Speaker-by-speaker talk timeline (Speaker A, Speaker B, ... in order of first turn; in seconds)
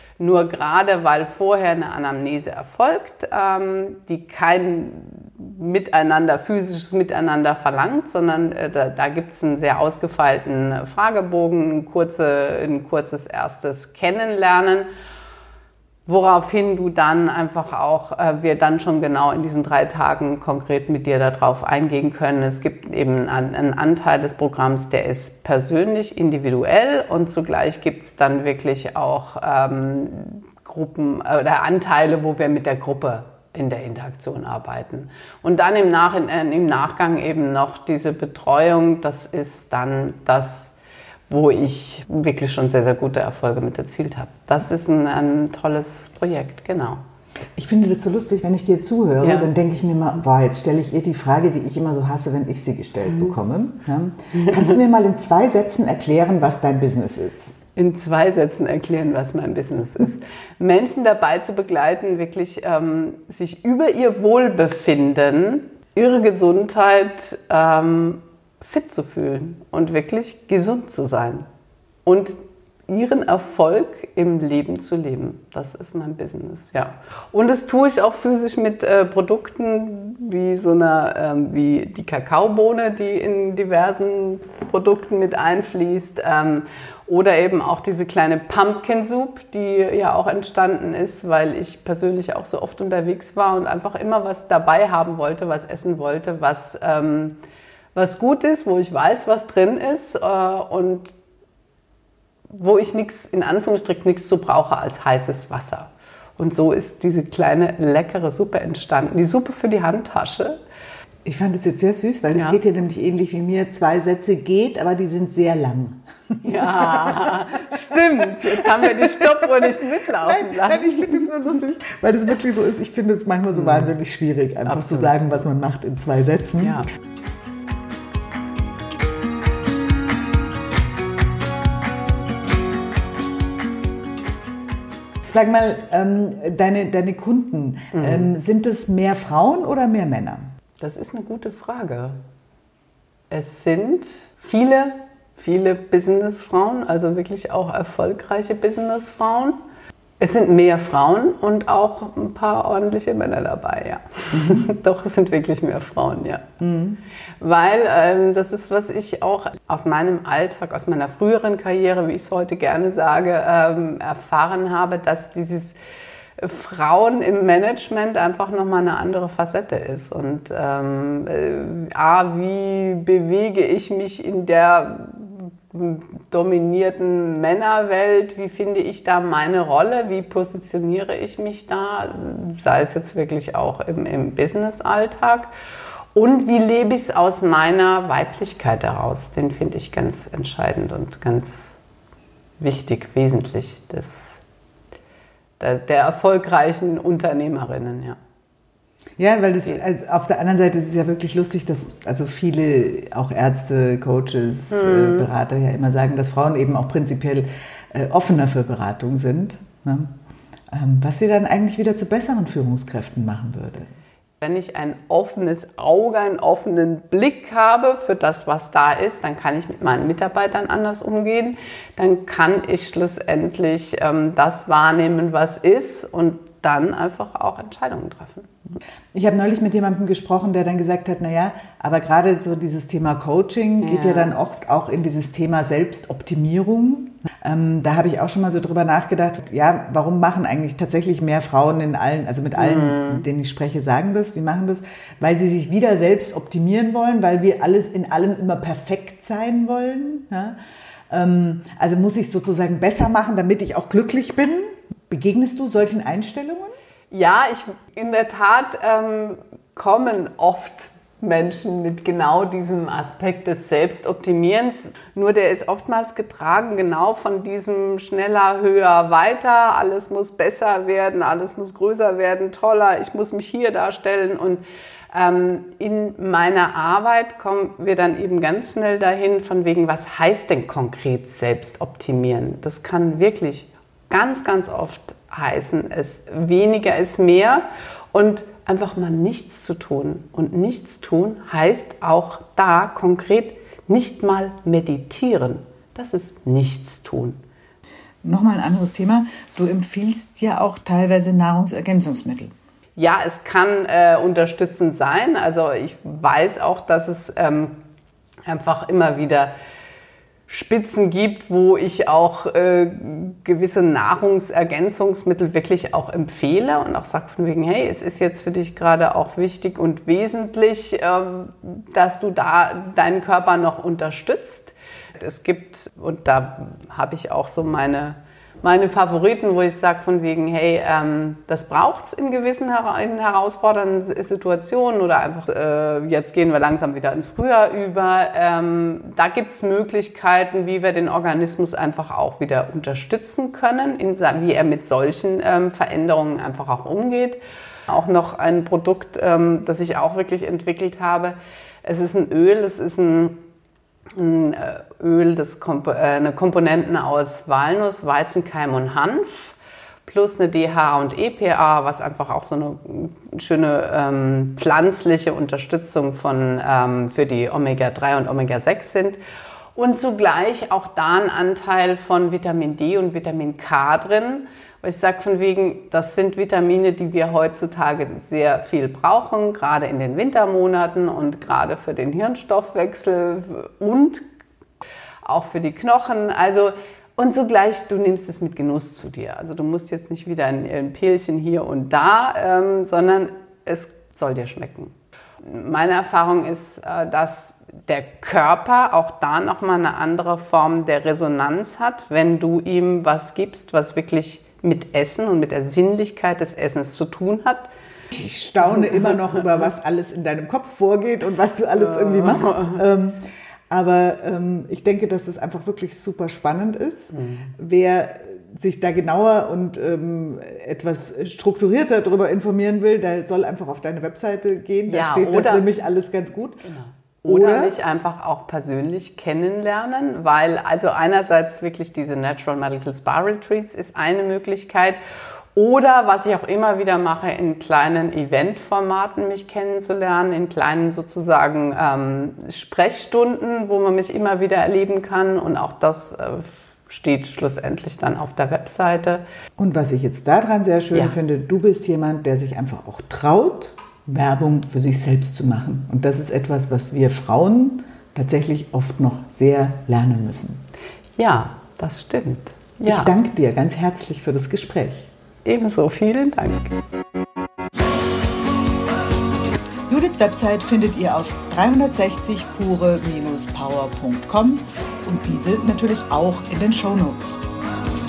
Speaker A: 0.2-14.9, 16.1-40.8, 41.3-47.0, 49.2-49.5, 54.4-54.6, 57.8-71.5, 72.0-97.4, 98.0-101.1, 102.5-110.6, 116.4-121.3, 123.6-123.9, 124.7-125.1, 126.6-126.9, 137.9-138.3, 140.8-142.2, 143.3-149.6, 150.2-156.5, 157.4-165.8, 166.4-185.5, 186.1-191.8, 192.6-194.4, 195.6-198.2, 204.7-205.3, 214.4-228.6, 233.8-234.3, 242.6-243.2, 257.1-297.4, 303.0-307.8, 308.5-309.5, 310.5-353.4, 354.1-369.2, 369.8-384.3, 385.2-407.7, 411.8-412.8, 417.1-417.5, 424.9-425.7, 426.6-435.0, 435.6-449.2, 461.2-463.1, 465.4-466.8
Speaker B: 47.6-57.6, 111.2-126.8, 135.3-140.5, 154.3-154.7, 156.6-157.0, 199.2-210.1, 210.7-213.9, 229.1-250.6, 251.1-256.8, 298.2-302.5, 408.1-426.6, 427.3-427.8, 449.6-460.6, 462.9-465.1, 469.9-477.4